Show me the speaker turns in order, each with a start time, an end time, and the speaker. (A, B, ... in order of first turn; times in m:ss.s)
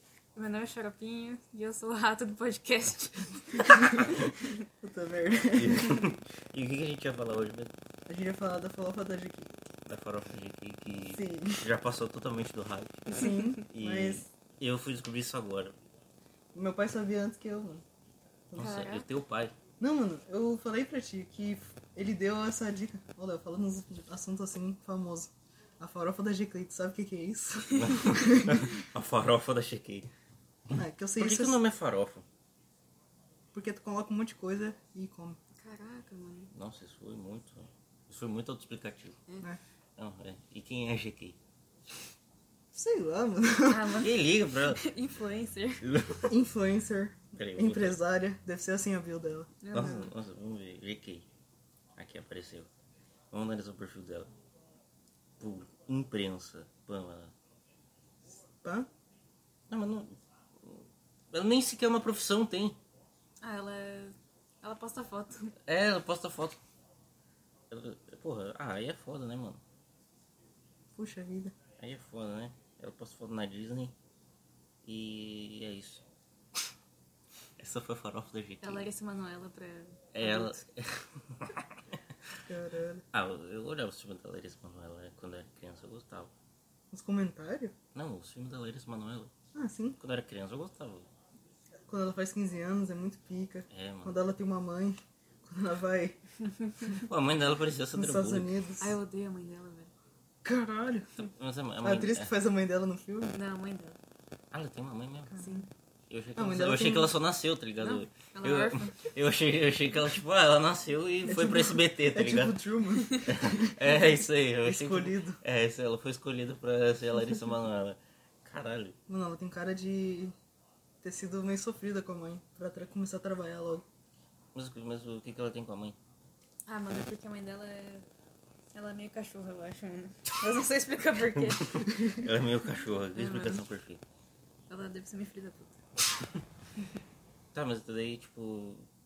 0:00.4-0:04.1 A
0:03.6-0:04.1 B
0:04.8-0:06.0 B
0:05.5-0:07.8 C
0:08.1-0:09.6 B
0:09.8-0:15.8 C
0:11.1-0:11.6 B
0:13.1-0:14.3 B
0:16.5-0:17.8 B
0:18.5-0:18.8 B
0:18.6-0:19.5 C
0:18.6-0:19.0 A
0:19.8-0:28.8 B
0:27.7-0:30.1 C
0:30.7-0:31.6 B
0:31.2-0:32.2 C
0:33.5-0:35.4 B
0:35.6-0:36.5 A
0:36.5-0:39.2 C
0:40.0-0:41.4 C
0:42.7-0:44.1 B
0:43.7-0:45.9 A
0:44.0-0:44.8 C
0:45.8-0:46.3 C
0:46.3-0:50.0 B
0:47.3-0:48.0 C
0:49.6-0:50.1 A
0:49.7-0:51.3 C
0:52.0-0:52.7 C
0:53.3-0:54.3 C
0:55.4-0:57.3 C
0:58.4-0:58.9 B
0:59.7-1:02.8 C
1:03.4-1:05.5 A
1:05.6-1:06.6 C
1:07.7-1:09.6 C
1:10.9-1:11.5 B
1:11.8-1:13.9 C
1:14.8-1:16.0 C
1:17.6-1:18.8 C
1:18.6-1:20.0 A
1:20.1-1:22.0 C
1:20.2-1:20.6 B
1:22.4-1:23.0 B
1:23.1-1:26.3 C
1:26.9-1:27.7 B
1:27.9-1:29.3 C
1:29.5-1:30.0 B
1:30.0-1:31.1 C
1:31.9-1:36.2 B
1:33.7-1:34.2 C
1:37.0-1:38.5 C
1:37.9-1:39.0 B
1:38.8-1:39.9 A
1:40.4-1:41.1 B
1:41.2-1:42.3 C
1:41.8-1:43.4 B
1:43.3-1:44.0 A
1:44.5-1:45.4 C
1:45.4-1:45.7 A
1:46.1-1:52.6 C
1:46.4-1:47.1 B
1:47.8-1:49.1 A
1:51.2-1:53.8 B
1:53.1-1:59.0 C
1:54.6-1:55.4 B
1:59.1-2:00.3 B
2:01.0-2:03.8 B
2:04.5-2:06.0 C
2:06.6-2:08.1 A
2:08.7-2:12.1 A
2:11.3-2:14.0 C
2:13.1-2:13.6 A
2:14.7-2:15.8 A
2:17.5-2:18.9 C